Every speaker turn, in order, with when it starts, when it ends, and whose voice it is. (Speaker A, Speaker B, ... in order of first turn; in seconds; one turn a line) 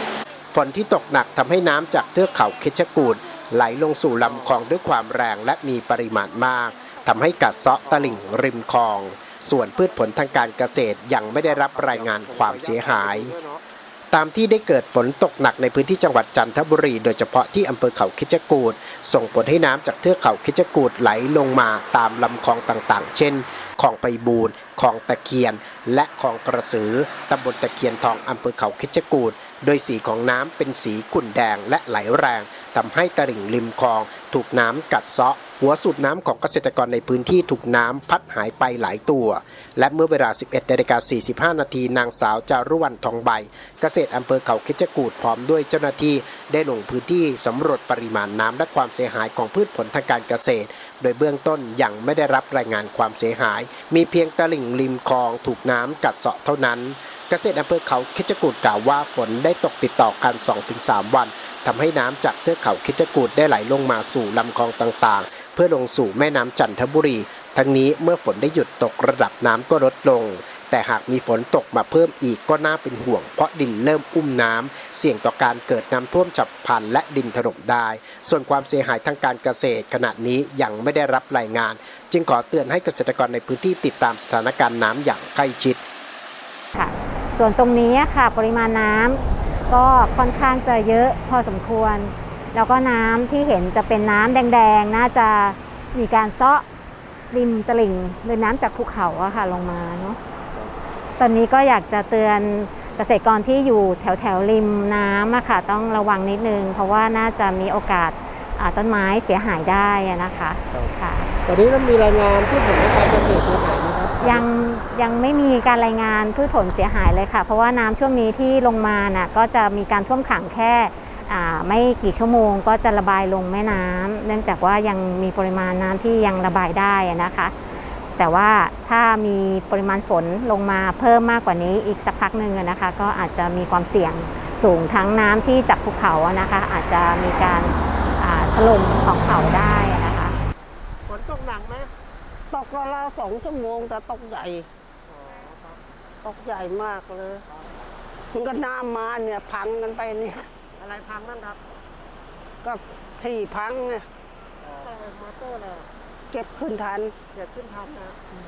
Speaker A: 0.5-13.4
Speaker B: 4.2-4.5
Speaker B: 7.9-8.2
Speaker B: 11.4-13.6
Speaker A: 14.1-85.8
Speaker C: 86.7-96.6
Speaker C: 97.3-100.2
Speaker C: 101.2-111.3
Speaker B: 111.5-114.4
Speaker C: 114.2-127.5
Speaker C: 128.2-140.4
Speaker B: 141.1-141.9
Speaker D: 142.5-144.7
Speaker B: 145.1-145.8
Speaker D: 146.2-147.4
Speaker D: 148.3-150.4
Speaker B: 150.8-151.6
Speaker D: 152.6-154.1
Speaker B: 154.6-155.9
Speaker D: 156.3-157.2
Speaker B: 157.3-158.2